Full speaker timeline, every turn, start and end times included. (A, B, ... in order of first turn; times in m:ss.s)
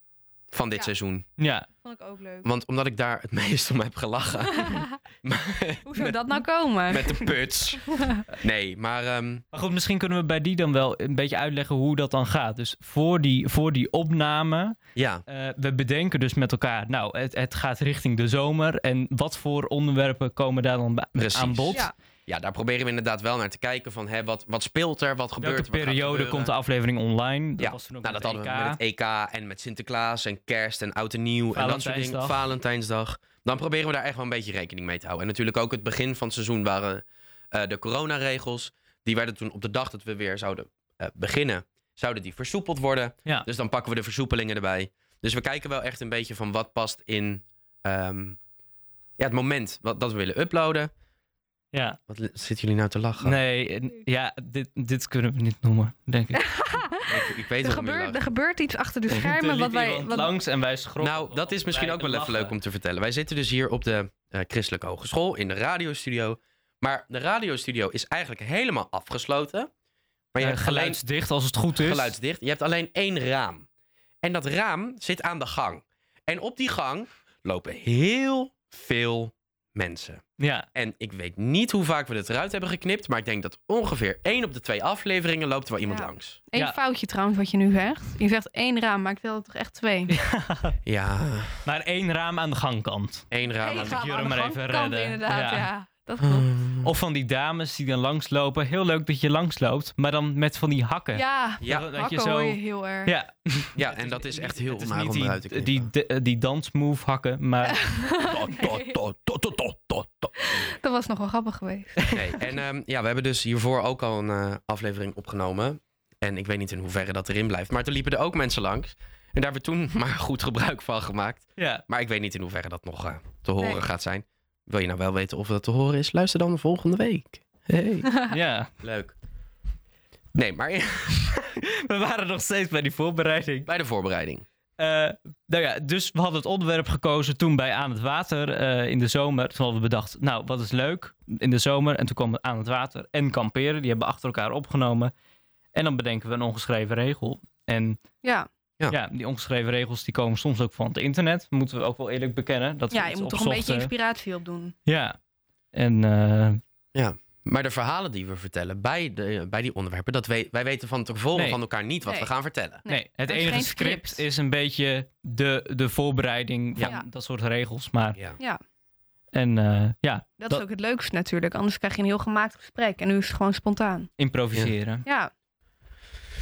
0:00.5-0:01.2 A
0:01.4-0:01.7 B
0:01.8-0:02.5 C
0:02.4-0:09.4 A
0:04.5-0:05.0 C
0:05.8-0:07.3 C
0:07.8-0:08.2 C
0:09.5-0:14.8 B
0:15.0-0:15.2 A
0:15.3-0:21.9 B
0:21.2-0:26.5 A
0:25.4-0:28.8 B
0:27.6-0:48.4 A
0:31.5-0:32.4 B
0:49.2-0:50.9 A
0:51.7-0:52.0 B
0:52.1-0:53.4 A
0:53.2-0:56.8 B
0:56.3-0:57.1 C
0:57.0-0:58.2 A
0:57.6-1:00.3 C
0:59.1-1:02.5 B
1:01.0-1:09.7 A
1:10.3-1:11.0 A
1:10.4-1:12.1 B
1:11.7-1:13.7 A
1:14.2-1:20.2 A
1:20.4-1:20.7 B
1:20.7-1:26.4 A
1:25.8-1:30.1 C
1:30.1-1:30.8 B
1:30.8-1:31.6 A
1:31.6-1:35.7 B
1:33.3-1:34.0 A
1:33.6-1:36.6 C
1:36.2-1:36.9 A
1:36.8-1:48.1 B
1:41.1-1:43.1 C
1:41.6-1:41.9 A
1:43.8-1:45.9 A
1:47.6-1:48.9 C
1:48.3-1:50.7 A
1:50.3-1:52.4 C
1:52.1-2:08.1 A
2:01.6-2:01.8 B
2:08.3-2:08.7 B
2:08.8-2:09.1 A
2:10.3-2:11.3 A
2:11.3-2:13.7 B
2:13.6-2:14.4 A
2:14.8-2:25.1 B
2:25.7-2:28.0 B
2:28.2-2:28.5 C
2:28.9-2:33.9 B
2:32.9-2:34.7 C
2:34.9-2:35.2 B
2:35.7-2:36.6 B
2:36.9-2:42.8 A
2:41.3-2:41.6 B
2:42.0-2:42.3 C
2:42.8-2:44.2 C
2:42.9-2:48.2 B
2:46.8-2:47.0 C
2:49.3-2:50.6 B
2:50.4-2:54.1 C
2:54.2-2:55.0 B
2:55.0-2:55.3 C